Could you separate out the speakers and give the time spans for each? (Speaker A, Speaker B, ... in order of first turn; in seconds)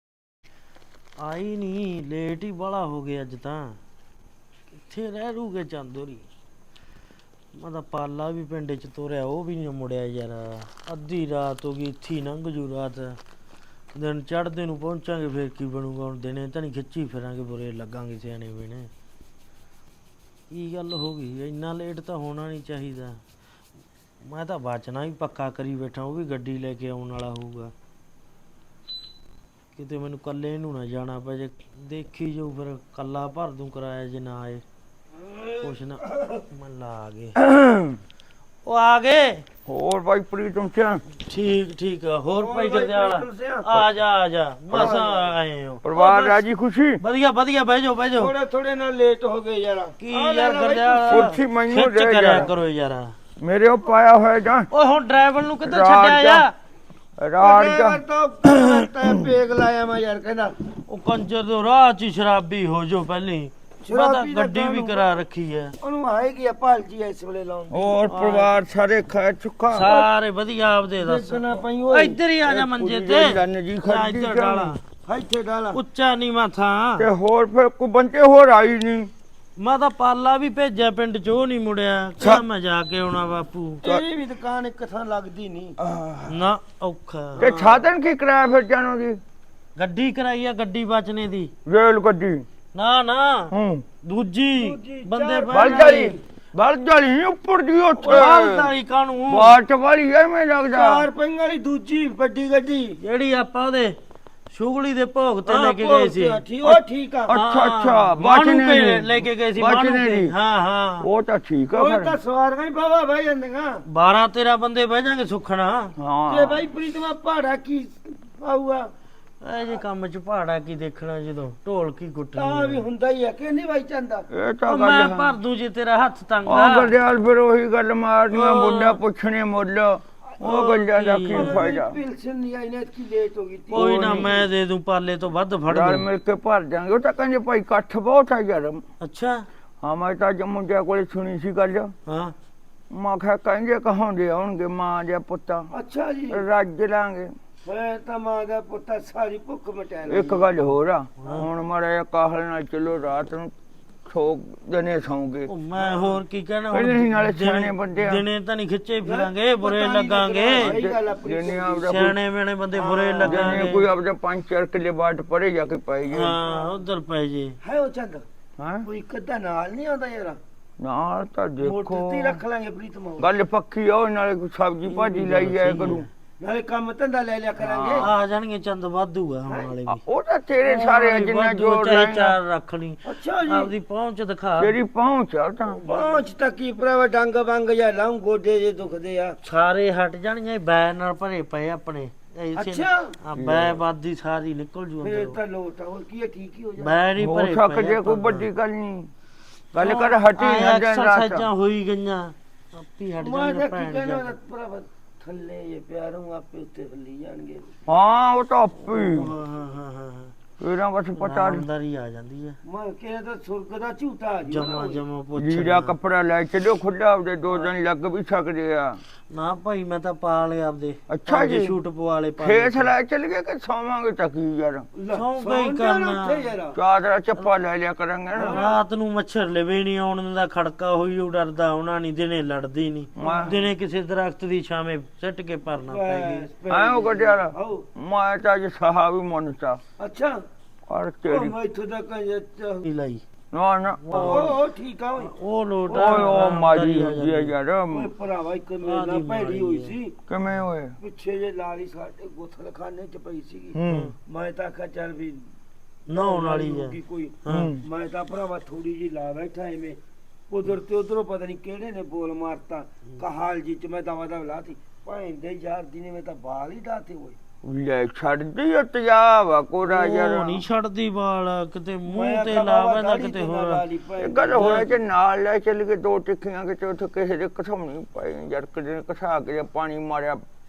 Speaker A: 1.2-3.8, 4.8-6.3, 7.5-13.2, 13.9-18.9, 20.5-23.2, 24.2-27.7, 29.8-34.6, 35.6-37.4, 38.6-39.5, 41.3-45.8, 47.0-48.3, 50.0-53.1, 54.7-56.5, 60.9-65.7, 68.1-68.5, 69.7-74.8, 75.7-77.1, 79.6-83.8, 86.3-87.7, 89.8-91.5, 92.7-93.5, 94.0-96.1, 98.0-99.6, 103.0-104.0, 104.5-106.4, 107.3-111.1, 113.9-115.9, 119.4-122.9, 124.7-126.9, 128.3-129.0, 130.4-131.6, 133.7-136.1, 139.0-139.4, 142.1-142.3, 151.2-151.5, 155.5-160.7, 161.9-163.8, 166.1-167.6, 174.9-176.1, 177.9-180.0, 180.7-184.8, 185.9-186.2, 189.4-195.4, 196.8-198.5, 199.8-204.3, 208.9-210.3, 211.2-212.6, 214.5-215.9, 219.3-222.9, 225.1-226.5, 228.4-236.5, 242.8-243.2, 244.0-244.6, 245.2-247.5, 248.8-250.0, 253.9-254.1, 256.1-257.7, 269.9-273.8
Speaker B: 35.1-36.4, 42.4-43.8, 44.7-45.3, 45.9-46.4, 48.2-51.4, 57.4-60.5, 63.9-65.2, 65.8-68.0, 71.0-72.2, 75.1-75.8, 83.8-85.8, 94.6-96.2, 100.7-103.0, 105.5-107.4, 111.7-113.8, 116.3-118.9, 122.3-124.3, 131.3-134.4, 145.7-146.4, 147.7-150.5, 155.8-156.2, 159.1-161.9, 162.7-163.7, 166.5-166.8, 167.6-168.2, 168.8-170.4, 171.6-173.3, 176.4-178.1, 179.5-179.8, 183.1-183.7, 185.8-189.4, 192.6-193.1, 195.0-197.0, 203.2-207.7, 212.7-215.0, 225.0-226.8, 228.4-228.7, 233.2-233.5, 235.9-237.8, 240.0-240.4, 241.2-242.9, 244.1-245.3, 245.9-246.4, 247.9-250.2, 251.0-255.4, 256.1-260.0, 260.5-267.4, 272.1-274.9
Speaker C: 37.4-38.0, 39.7-41.0, 44.7-45.0, 45.8-47.0, 51.1-52.5, 53.4-54.7, 55.6-56.5, 57.2-59.3, 67.7-69.8, 72.5-74.7, 77.0-79.1, 85.8-86.4, 87.4-89.2, 91.7-92.5, 93.5-93.8, 95.5-98.7, 99.3-101.1, 106.6-110.3, 111.0-112.2, 116.0-116.7, 124.3-125.4, 126.5-132.0, 133.7-134.4, 135.7-138.8, 139.8-141.9, 142.9-145.7, 146.3-147.3, 150.1-153.5, 154.1-155.5, 156.7-158.2, 160.5-162.2, 163.2-166.4, 168.6-168.9, 170.8-172.4, 173.2-176.1, 177.6-178.1, 180.0-182.4, 184.6-185.9, 193.4-193.8, 197.2-199.1, 199.7-201.5, 207.9-209.3, 210.6-211.7, 215.4-219.0, 221.1-221.8, 222.4-224.9, 226.8-228.6, 233.2-233.6, 236.7-239.8, 240.9-241.6, 243.5-244.5, 245.9-248.1, 250.3-250.9, 253.7-254.1, 257.5-257.8, 267.6-270.6, 274.2-280.4